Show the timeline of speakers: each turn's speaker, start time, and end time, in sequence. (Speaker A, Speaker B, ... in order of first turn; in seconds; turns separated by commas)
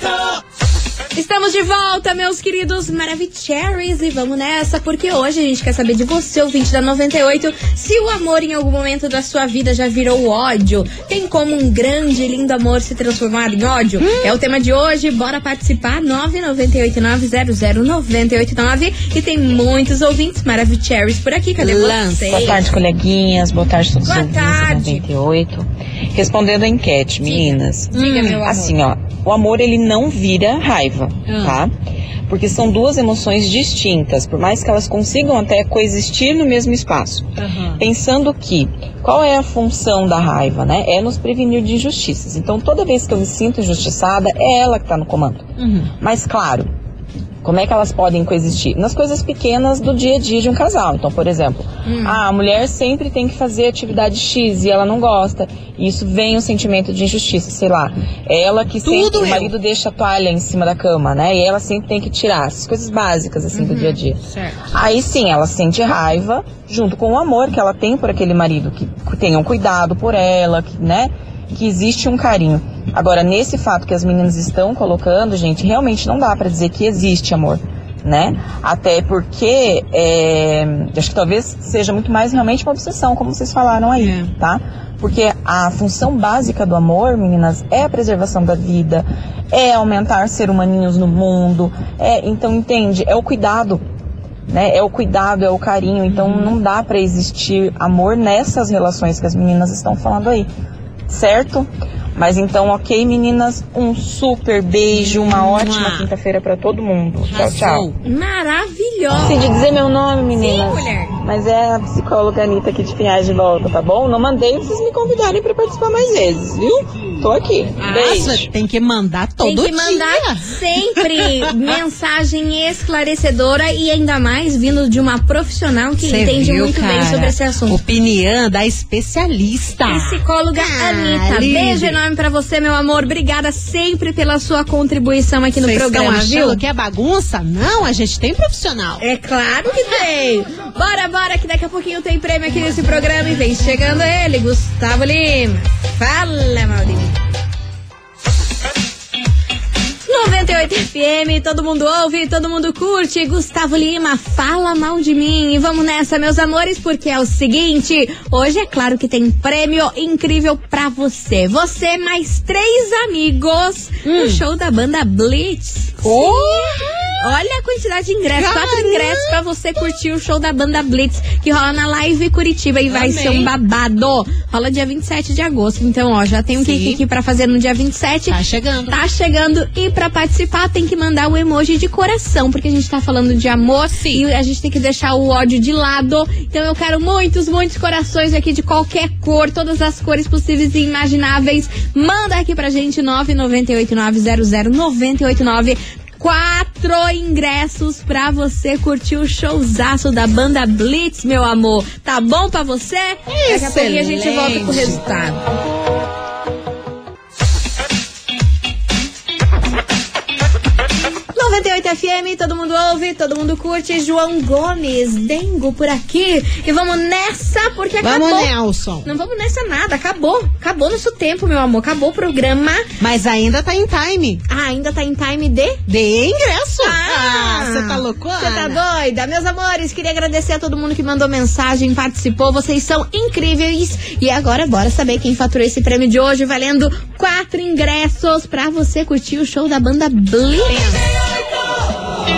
Speaker A: 1.1-22.6, Speaker B: 14.0-14.3, Speaker B: 21.6-22.6, Speaker C: 22.3-31.7, Speaker A: 24.0-25.0, Speaker B: 27.9-28.5, Speaker A: 27.9-28.6, Speaker B: 31.2-31.6, Speaker C: 32.3-45.5, Speaker B: 37.4-37.8, Speaker B: 45.6-45.9, Speaker C: 46.0-46.7, Speaker C: 47.4-64.2, Speaker A: 51.9-52.2, Speaker B: 58.8-59.5, Speaker A: 63.5-64.0, Speaker B: 64.2-64.5, Speaker C: 64.7-93.8, Speaker B: 84.0-84.3, Speaker C: 94.5-100.5, Speaker B: 96.1-96.5, Speaker C: 101.1-107.9, Speaker B: 104.9-106.1, Speaker B: 107.3-108.0, Speaker A: 108.0-109.5, Speaker C: 109.1-118.5, Speaker A: 110.3-111.2, Speaker B: 117.8-121.4, Speaker A: 119.4-127.8, Speaker B: 126.0-132.0, Speaker A: 129.8-136.6, Speaker B: 135.6-139.0, Speaker A: 139.0-147.2, Speaker A: 150.1-178.4, Speaker B: 164.0-164.4, Speaker B: 166.0-167.2, Speaker B: 168.3-169.4, Speaker B: 172.9-173.5, Speaker B: 176.6-177.0, Speaker B: 178.3-179.0, Speaker A: 178.9-205.4, Speaker B: 183.9-184.2, Speaker B: 203.3-205.0, Speaker A: 211.3-218.5, Speaker B: 218.0-219.1, Speaker A: 219.0-222.8, Speaker B: 223.0-224.4, Speaker A: 224.5-225.8, Speaker B: 225.9-228.8, Speaker A: 226.8-241.0